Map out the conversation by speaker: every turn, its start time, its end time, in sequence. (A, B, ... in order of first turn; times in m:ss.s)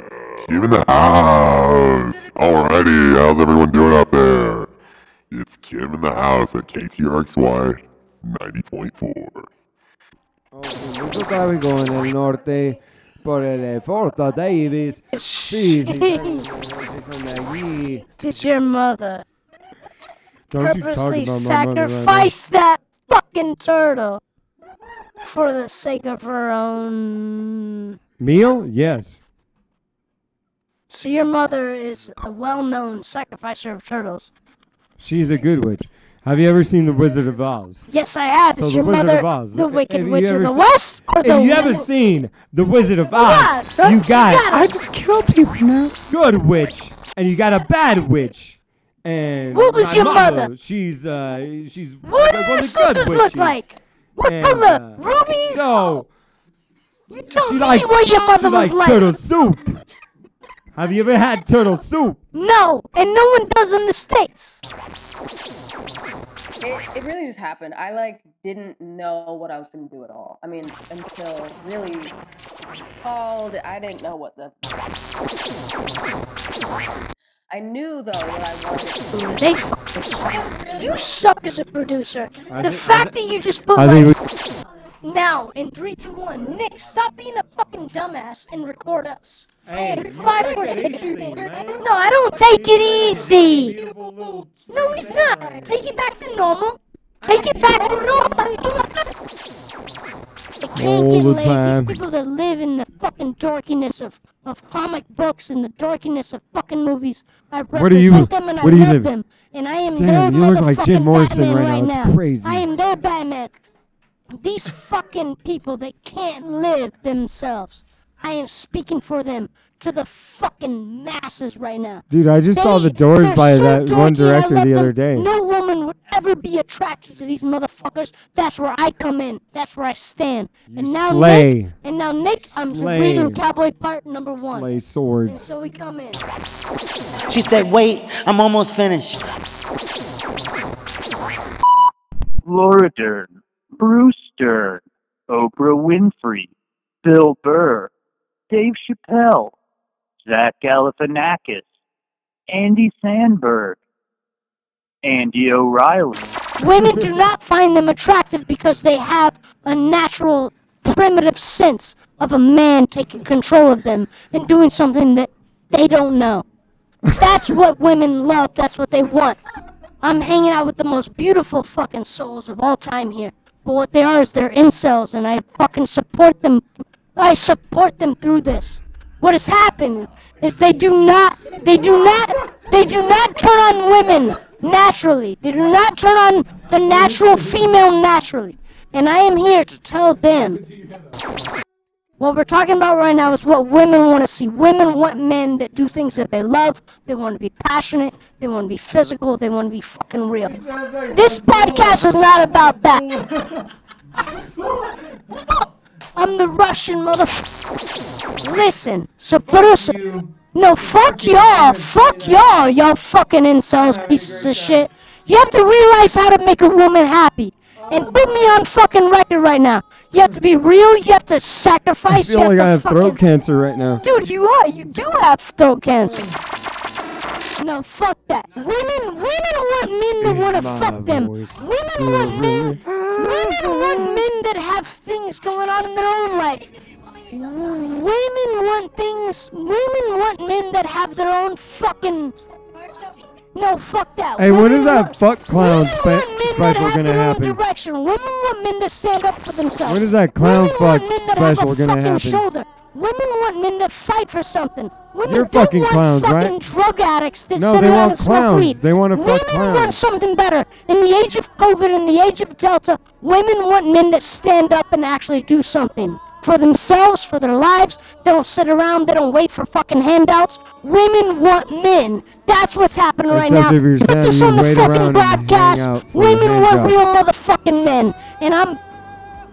0:00.4-0:04.7 A
0:05.3-0:09.5 A
0:10.5-0:18.1 B
0:15.1-0:16.4 C
0:18.2-0:19.2 C
0:20.5-0:22.3 B
0:20.6-0:24.2 C
0:25.2-0:28.0 C
0:28.2-0:29.2 B
0:31.0-0:34.3 C
0:35.0-0:37.9 B
0:37.9-0:41.9 C
0:38.6-0:53.6 B
0:43.1-0:44.8 C
0:49.5-0:50.5 C
0:52.0-0:56.0 C
0:54.2-0:56.1 B
0:57.1-0:59.1 C
0:57.4-0:59.8 B
1:00.7-1:02.2 B
1:02.3-1:04.6 C
1:06.6-1:12.2 D
1:13.0-1:14.8 D
1:17.5-1:19.4 D
1:19.1-1:24.2 C
1:22.5-1:23.2 B
1:23.8-1:24.2 B
1:25.0-1:33.8 C
1:29.6-1:31.9 B
1:32.4-1:35.8 B
1:34.7-1:39.2 C
1:37.2-1:38.5 B
1:40.6-1:53.6 C
1:40.8-1:42.0 B
1:47.7-1:49.1 B
1:49.9-1:52.7 B
1:54.4-2:14.7 C
2:02.1-2:05.3 B
2:10.7-2:11.8 B
2:12.4-2:13.4 B
2:14.4-2:15.4 B
2:15.3-2:16.2 C
2:17.3-2:19.2 E
2:22.4-2:26.5 F
2:27.0-2:27.9 F
2:28.5-2:29.6 F
2:30.2-2:31.6 F
2:32.5-2:33.8 F
2:35.0-2:36.3 F
2:36.6-2:46.4 C
2:47.2-2:49.4 C
2:50.0-3:10.6 C
3:12.2-3:20.6 C
3:20.4-3:23.7 B
3:21.1-3:23.0 C
3:24.2-3:25.2 B
3:26.2-3:27.7 C
3:28.4-3:30.0 C
3:29.4-3:32.6 B
3:30.5-3:43.2 C
3:33.8-3:34.9 B
3:37.9-3:38.5 B
3:42.1-3:44.0 B
3:44.0-3:46.2 C
3:46.0-3:46.4 B
3:47.6-3:56.7 C
3:50.2-3:54.2 B
3:57.3-4:02.4 C
4:03.5-4:38.8 C
4:04.4-4:07.6 B
4:09.8-4:12.4 B
4:15.2-4:16.6 B
4:17.5-4:20.0 B
4:33.3-4:37.0 B